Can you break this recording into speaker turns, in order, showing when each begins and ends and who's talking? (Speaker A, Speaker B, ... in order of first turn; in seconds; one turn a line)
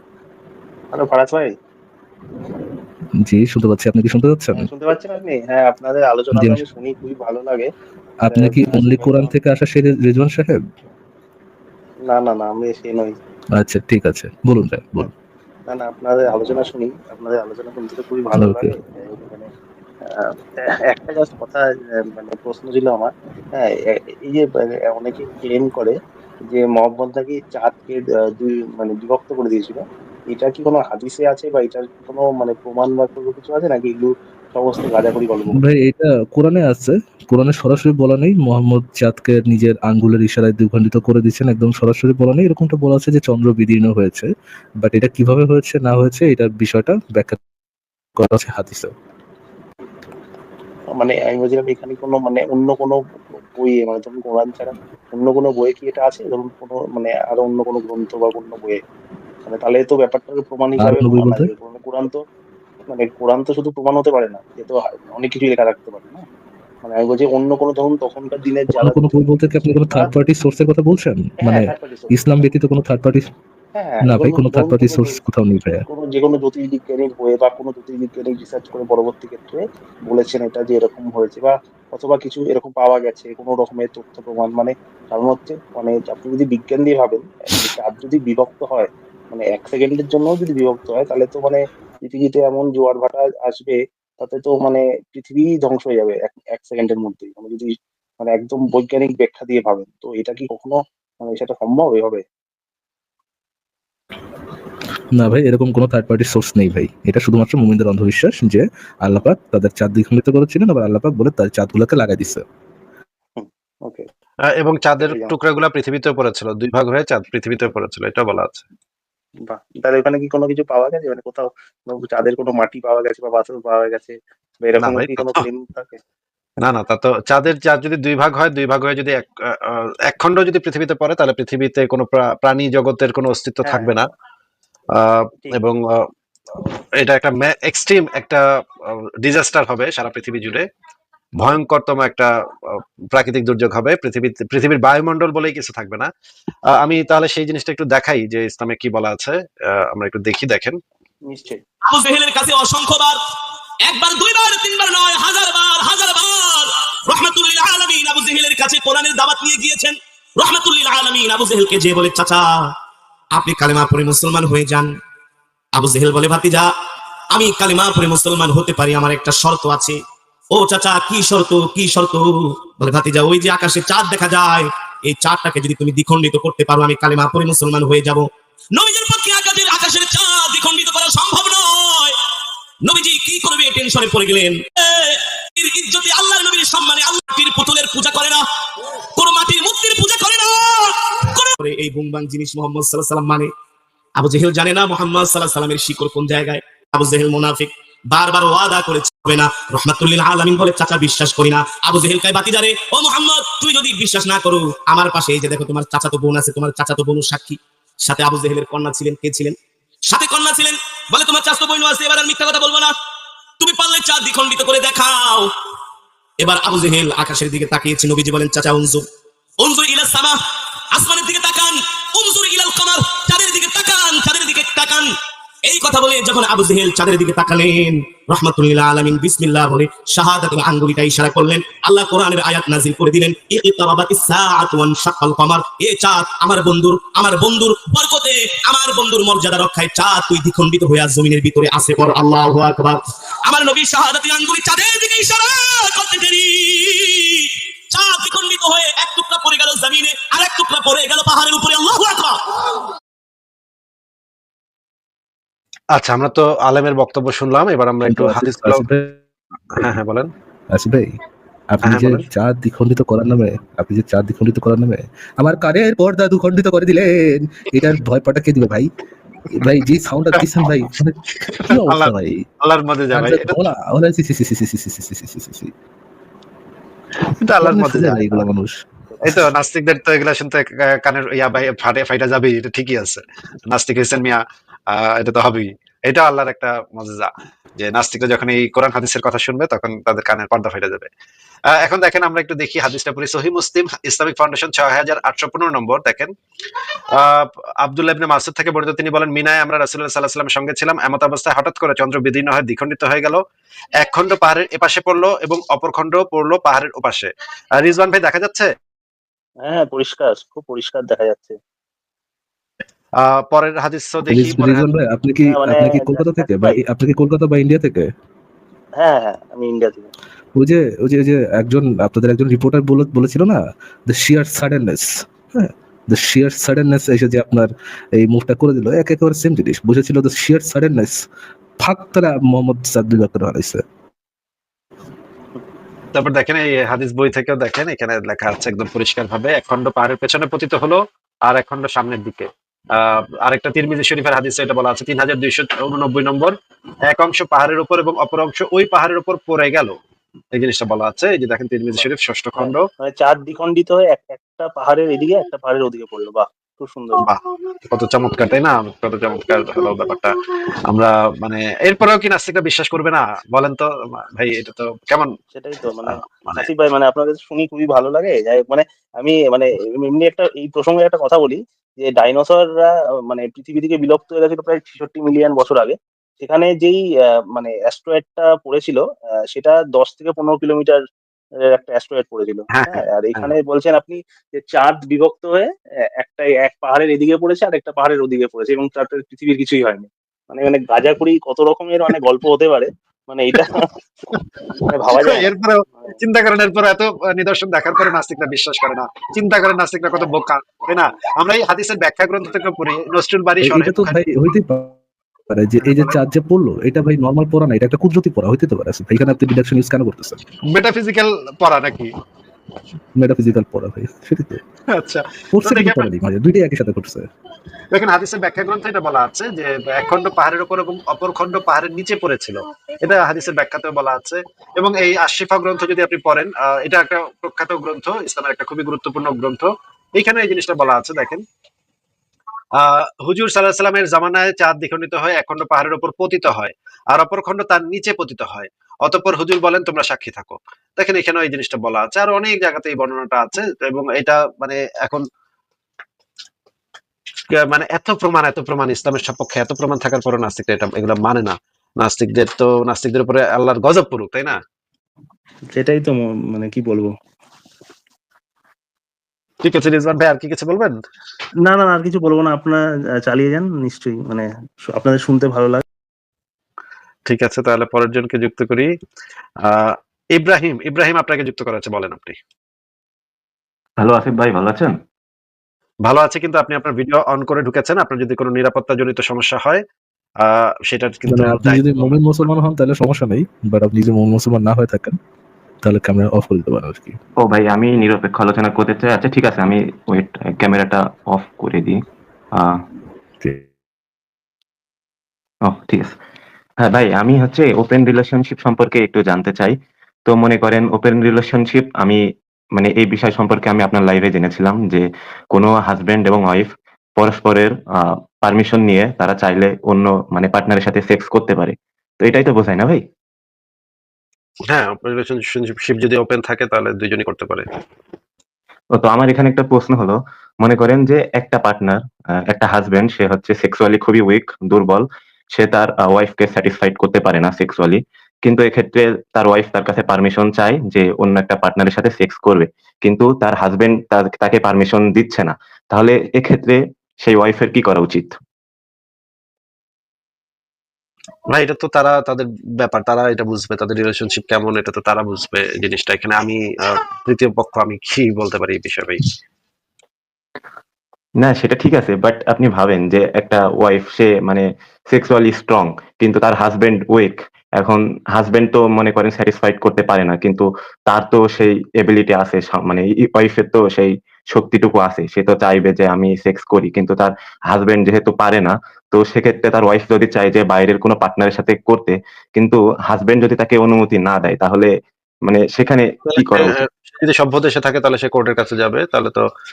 Speaker A: 0.9-1.5
Speaker B: 3.2-4.7
Speaker A: 4.5-7.7
Speaker B: 6.3-6.6
Speaker B: 8.2-10.6
Speaker A: 8.3-9.3
Speaker A: 12.1-13.1
Speaker B: 13.6-15.1
Speaker A: 15.7-19.5
Speaker B: 18.4-18.7
Speaker A: 20.9-23.7
Speaker A: 24.2-25.9
Speaker A: 26.5-35.6
Speaker B: 35.5-44.3
Speaker B: 44.8-47.4
Speaker B: 48.2-48.9
Speaker A: 50.9-53.0
Speaker A: 53.6-58.8
Speaker A: 59.5-62.2
Speaker B: 60.8-61.5
Speaker A: 62.9-66.2
Speaker A: 66.8-70.1
Speaker B: 68.7-73.2
Speaker A: 71.4-72.4
Speaker A: 73.8-75.2
Speaker B: 74.0-75.8
Speaker A: 75.9-97.7
Speaker A: 98.2-102.2
Speaker B: 105.2-112.4
Speaker A: 113.4-114.0
Speaker C: 114.6-118.6
Speaker A: 115.0-115.3
Speaker A: 119.5-126.0
Speaker C: 124.8-125.5
Speaker C: 126.6-134.1
Speaker A: 133.6-134.0
Speaker C: 134.9-136.1
Speaker C: 137.0-140.7
Speaker C: 141.4-146.1
Speaker C: 146.7-150.8
Speaker A: 151.3-151.6
Speaker D: 151.9-153.2
Speaker D: 153.8-162.7
Speaker D: 163.3-164.9
Speaker D: 165.7-166.7
Speaker D: 167.3-170.0
Speaker D: 170.5-182.2
Speaker D: 182.8-188.4
Speaker D: 189.1-193.5
Speaker D: 194.2-212.9
Speaker D: 213.6-215.5
Speaker D: 216.4-219.0
Speaker D: 219.6-220.4
Speaker D: 220.9-225.1
Speaker D: 225.7-252.4
Speaker C: 255.9-258.8
Speaker B: 258.0-259.2
Speaker C: 259.7-260.3
Speaker B: 260.7-261.1
Speaker B: 261.7-268.9
Speaker C: 261.8-262.2
Speaker B: 269.5-272.4
Speaker C: 271.5-273.6
Speaker B: 273.1-275.7
Speaker C: 277.4-278.4
Speaker B: 277.6-279.4
Speaker C: 279.2-291.1
Speaker C: 291.8-296.3
Speaker C: 297.1-303.4
Speaker C: 303.9-308.7
Speaker A: 309.6-311.5
Speaker C: 313.2-314.9
Speaker B: 314.3-318.1
Speaker A: 315.4-316.8
Speaker A: 319.0-320.1
Speaker B: 320.6-331.2
Speaker B: 331.8-333.8
Speaker C: 336.1-346.5
Speaker C: 347.1-349.9
Speaker C: 350.5-352.9
Speaker A: 352.6-357.2
Speaker C: 357.2-360.3
Speaker C: 360.9-365.3
Speaker A: 365.5-377.0
Speaker C: 366.0-366.7
Speaker A: 377.5-379.0
Speaker A: 379.5-381.0
Speaker A: 381.7-385.7
Speaker C: 382.7-383.5
Speaker A: 386.2-393.8
Speaker A: 394.9-396.1
Speaker C: 395.1-404.2
Speaker B: 403.6-405.0
Speaker B: 405.5-410.4
Speaker C: 405.8-406.2
Speaker C: 410.7-412.1
Speaker B: 413.2-414.6
Speaker C: 414.9-416.1
Speaker B: 415.5-417.3
Speaker C: 417.9-431.4
Speaker C: 432.8-445.2
Speaker C: 447.5-454.6
Speaker A: 455.7-457.1
Speaker C: 459.6-460.9
Speaker A: 461.6-465.8
Speaker C: 467.2-468.9
Speaker C: 469.6-472.4
Speaker E: 474.0-475.0
Speaker C: 476.0-479.8
Speaker C: 480.4-482.2
Speaker B: 481.3-485.2
Speaker B: 485.8-487.2
Speaker E: 487.4-492.0
Speaker E: 495.6-496.1
Speaker E: 496.8-499.7
Speaker E: 500.3-502.2
Speaker E: 502.8-513.0
Speaker C: 514.7-517.7
Speaker E: 519.0-538.4
Speaker C: 541.5-549.2
Speaker E: 551.4-574.9
Speaker E: 575.5-576.8
Speaker C: 576.3-579.5